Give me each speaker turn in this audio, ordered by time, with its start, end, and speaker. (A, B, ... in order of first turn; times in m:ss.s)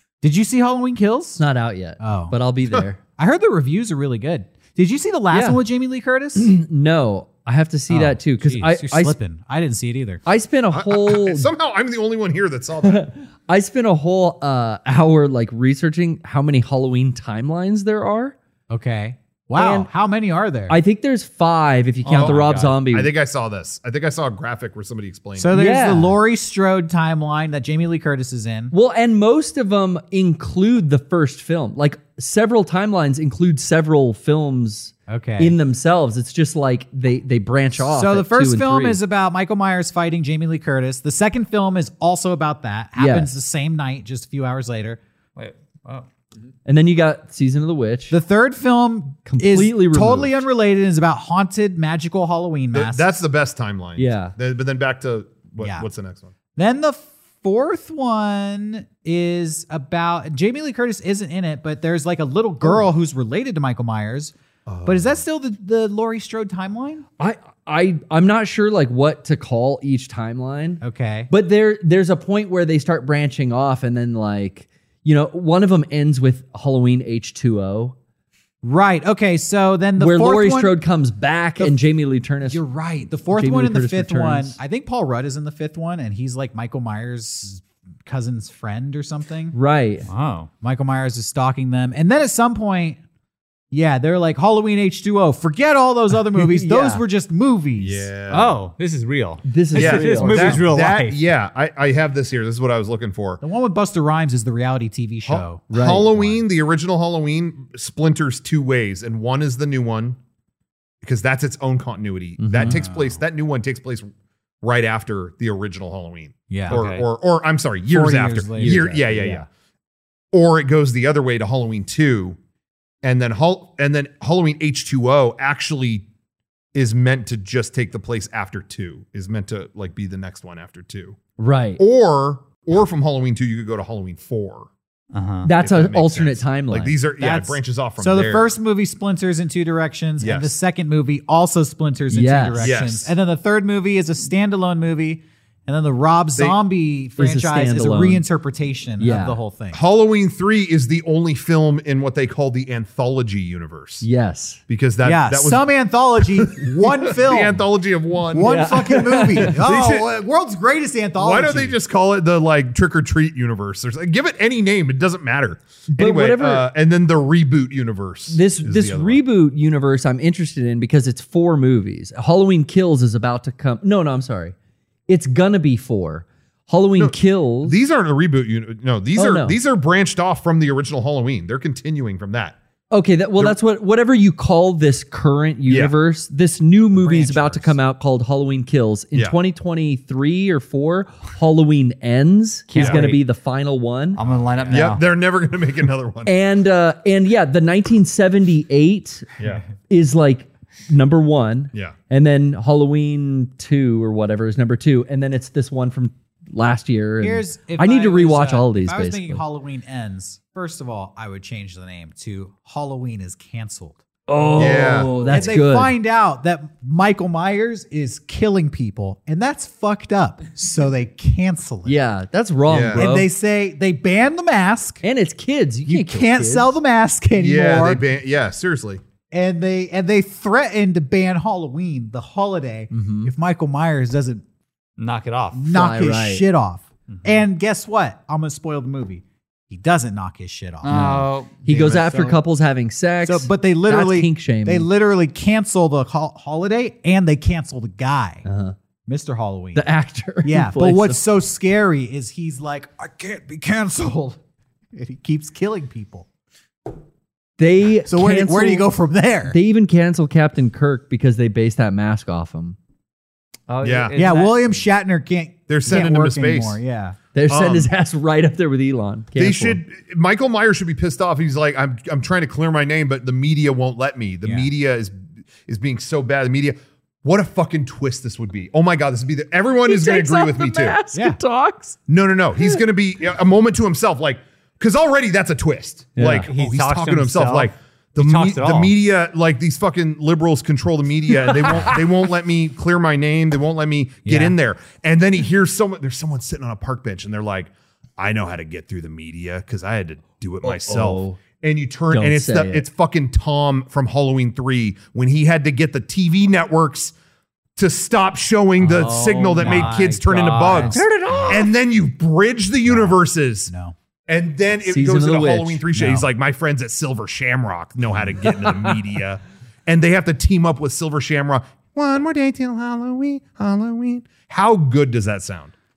0:00.2-0:01.4 A
0:01.4-0:03.0 B
0:02.0-0:02.4 A
0:03.2-0:06.5 A
0:05.3-0:05.6 B
0:06.3-0:09.2 B
0:07.9-0:10.2 A
0:10.2-0:11.5 B
0:10.7-0:13.1 C
0:12.8-0:18.3 B
0:18.7-0:20.8 A
0:19.5-0:19.9 B
0:20.7-0:23.1 B
0:22.1-0:25.5 C
0:22.1-0:22.7 D
0:25.4-0:28.7 A
0:25.5-0:26.1 B
0:28.7-0:39.0 B
0:35.1-0:35.6 A
0:37.8-0:45.0 A
0:43.0-0:43.3 B
0:45.4-0:46.1 D
0:46.6-0:48.2 B
0:48.1-0:53.1 A
0:49.2-0:50.4 B
0:52.7-0:56.3 C
0:54.0-0:54.3 B
0:55.6-0:55.8 A
0:56.5-1:04.3 A
1:04.6-1:05.2 C
1:04.8-1:07.0 A
1:07.2-1:18.0 B
1:10.8-1:11.3 A
1:18.6-1:20.8 A
1:20.0-1:22.6 B
1:22.4-1:29.6 A
1:23.3-1:24.6 B
1:29.5-1:30.1 B
1:30.1-1:30.5 D
1:30.6-1:33.0 A
1:33.7-1:38.1 A
1:36.4-1:37.0 B
1:37.8-1:38.5 C
1:38.3-1:41.2 D
1:39.4-1:40.6 B
1:39.7-1:43.4 C
1:40.2-1:40.5 A
1:43.4-1:46.4 A
1:45.2-1:50.2 C
1:45.7-1:46.1 B
1:51.0-1:54.1 C
1:52.4-1:52.8 B
1:52.6-1:53.2 A
1:54.6-1:59.5 C
1:56.5-1:56.8 A
1:56.7-1:57.0 D
1:57.9-1:59.4 A
1:58.6-1:59.4 B
2:00.3-2:02.4 C
2:03.0-2:06.0 C
2:06.7-2:11.2 C
2:11.4-2:11.8 B
2:11.8-2:14.7 C
2:15.1-2:15.5 D
2:15.4-2:16.9 B
2:15.6-2:18.5 C
2:17.2-2:29.8 A
2:20.2-2:20.5 C
2:22.1-2:22.8 B
2:22.6-2:23.1 C
2:27.2-2:28.2 B
2:29.0-2:29.4 B
2:29.7-2:34.0 C
2:34.0-2:34.6 B
2:34.7-2:35.6 C
2:35.0-2:37.6 A
2:36.2-2:38.7 C
2:38.3-2:41.8 A
2:38.4-2:39.6 B
2:39.4-2:40.1 C
2:41.2-2:49.2 C
2:45.9-2:46.7 B
2:48.3-2:54.5 B
2:55.1-2:57.8 B
2:57.0-3:02.6 C
2:59.2-2:59.6 B
3:02.9-3:14.2 B
3:05.7-3:05.9 C
3:06.9-3:07.7 A
3:12.7-3:13.2 D
3:12.8-3:13.0 C
3:14.1-3:15.0 D
3:14.7-3:16.3 C
3:16.2-3:19.3 B
3:19.9-3:29.4 B
3:27.2-3:42.0 A
3:34.3-3:35.9 B
3:34.6-3:35.5 C
3:41.8-3:43.3 B
3:42.7-3:43.1 C
3:42.9-3:45.0 A
3:45.0-3:46.7 B
3:45.8-3:48.0 A
3:47.4-3:49.0 C
3:49.3-3:54.4 A
3:52.9-3:53.3 B
3:55.0-3:55.6 D
3:55.5-4:01.1 A
3:55.6-3:56.4 B
3:57.1-3:57.4 D
4:00.8-4:01.6 D
4:00.8-4:04.9 B
4:01.6-4:02.2 C
4:03.2-4:08.4 A
4:08.4-4:08.8 B
4:09.1-4:09.8 A
4:09.7-4:11.2 B
4:10.4-4:14.4 A
4:14.9-4:16.2 A
4:17.6-4:18.9 B
4:18.1-4:19.6 A
4:19.5-4:22.8 B
4:23.7-4:24.8 D
4:23.8-4:24.2 C
4:24.2-4:27.2 A
4:25.7-4:26.8 C
4:25.9-4:26.1 B
4:27.3-4:29.8 B
4:27.5-4:27.9 C
4:29.4-4:41.0 C
4:39.8-4:42.0 B
4:41.1-4:41.4 A
4:42.1-5:07.1 C
4:42.6-4:42.8 B
4:46.2-4:46.5 B
4:46.4-4:48.9 D
4:51.5-4:51.9 B
4:54.2-4:54.5 A
5:00.6-5:01.4 B
5:02.1-5:02.8 B
5:07.8-5:13.7 C
5:08.8-5:11.1 D
5:09.6-5:10.1 A
5:10.7-5:11.7 B
5:12.8-5:13.9 A
5:14.3-5:25.7 C
5:14.8-5:16.0 B
5:16.0-5:16.2 A